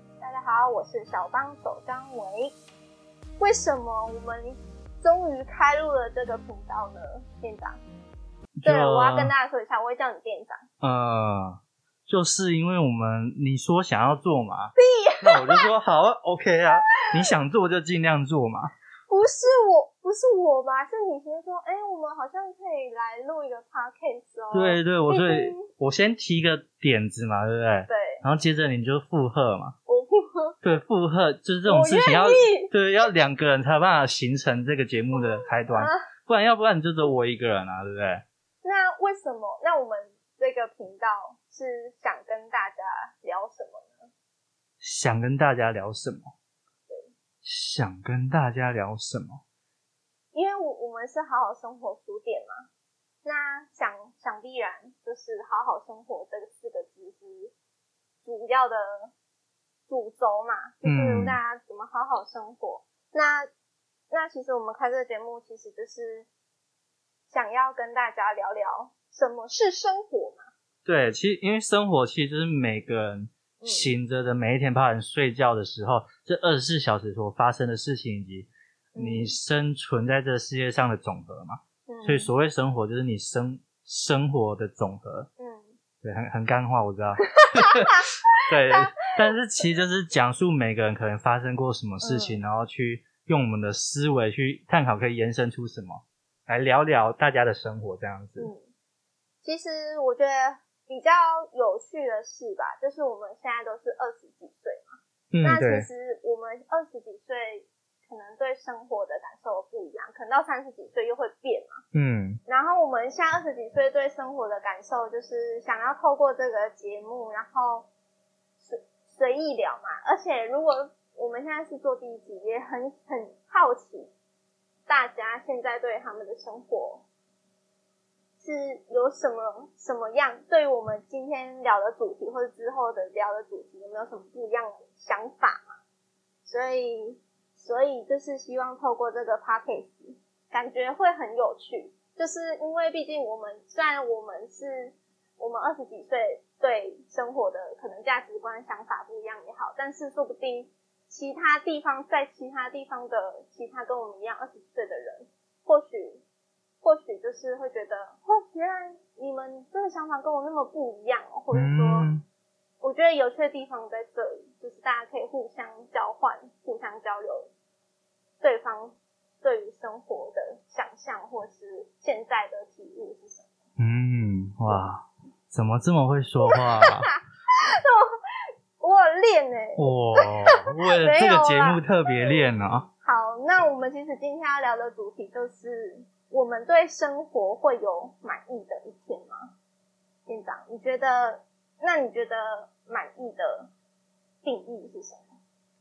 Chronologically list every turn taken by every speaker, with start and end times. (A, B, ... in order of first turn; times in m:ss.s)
0:00.2-0:02.5 A
0:03.4-0:07.8 A
0:08.6-0:09.3 B
0:08.6-0:10.6 A
0:10.8-0:18.7 B
0:14.8-0:15.7 A
0:17.0-0:17.3 A
0:19.1-0:25.7 A
0:24.5-0:29.8 B
0:27.9-0:28.2 A
0:29.9-0:30.6 A
0:30.6-0:38.2 B
0:31.7-0:32.7 A
0:35.1-0:36.0 A
0:38.6-0:44.1 A
0:44.8-0:46.3 B
0:46.9-0:47.1 A
0:47.4-0:49.4 B
0:50.3-0:52.7 A
0:53.2-0:57.5 A
0:58.2-0:59.1 A
0:59.9-1:03.5 A
1:00.8-1:01.4 B
1:04.1-1:06.3 A
1:07.3-1:10.5 A
1:10.9-1:25.3 B
1:13.6-1:13.9 A
1:19.0-1:19.3 A
1:21.9-1:22.3 A
1:25.4-1:25.8 A
1:26.0-1:38.5 B
1:27.4-1:28.2 A
1:28.7-1:28.9 A
1:32.0-1:32.4 A
1:38.4-1:38.7 A
1:39.4-1:51.8 A
1:45.3-1:45.9 B
1:51.9-1:52.4 B
1:52.4-1:57.9 A
1:58.6-2:04.1 A
2:04.9-2:07.0 A
2:08.4-2:15.8 A
2:16.4-2:36.2 A
2:36.8-2:42.1 A
2:41.5-2:42.2 B
2:42.8-2:47.5 A
2:48.4-2:53.5 A
2:53.8-2:57.1 B
2:56.5-2:58.1 A
2:58.8-3:01.8 A
2:59.8-3:02.9 B
3:03.0-3:09.5 A
3:10.3-3:13.7 A
3:14.4-3:15.3 A